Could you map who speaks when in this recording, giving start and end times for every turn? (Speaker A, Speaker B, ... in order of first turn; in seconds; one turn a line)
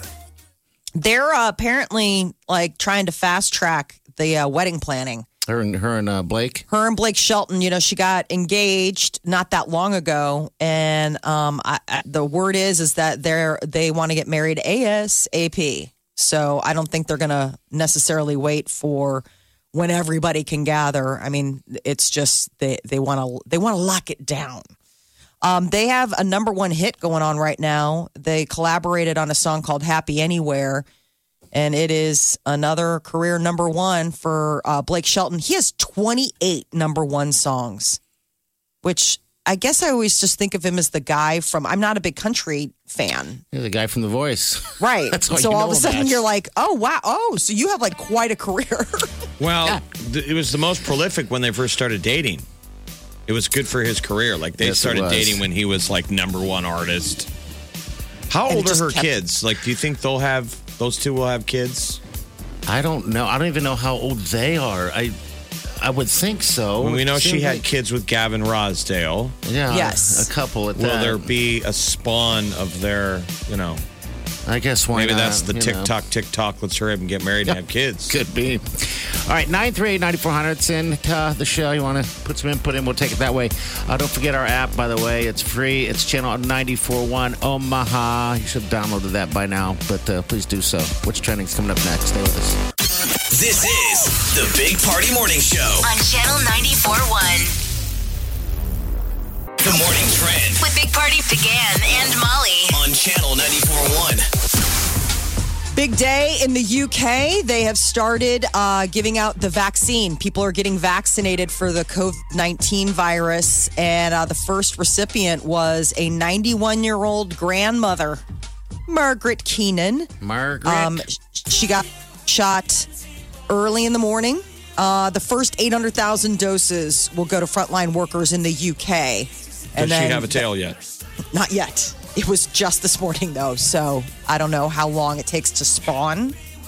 Speaker A: 0.9-5.2
Speaker B: 5.5-6.7
Speaker A: 6.7-24.7
Speaker A: 25.4-30.8
Speaker A: 31.5-38.0
Speaker A: 38.8-43.4
Speaker B: 43.5-46.2
Speaker A: 44.8-49.1
Speaker C: 49.4-52.4
Speaker C: 53.3-57.3
Speaker B: 54.6-55.4
Speaker C: 58.3-62.0
Speaker A: 58.5-59.1
Speaker B: 62.7-67.6
Speaker C: 66.8-69.3
Speaker B: 69.4-71.3
Speaker A: 69.7-70.3
Speaker C: 70.8-73.8
Speaker B: 74.5-75.9
Speaker C: 74.9-78.2
Speaker B: 78.1-92.6
Speaker D: 93.3-95.9
Speaker E: 95.8-97.6
Speaker D: 99.6-100.6
Speaker E: 100.6-102.8
Speaker D: 102.7-104.3
Speaker A: 105.7-118.2
Speaker A: 118.9-120.1
Speaker B: 120.2-121.0
Speaker A: 120.6-122.9
Speaker A: 123.5-130.4
Speaker C: 129.8-130.8
Speaker A: 131.3-136.4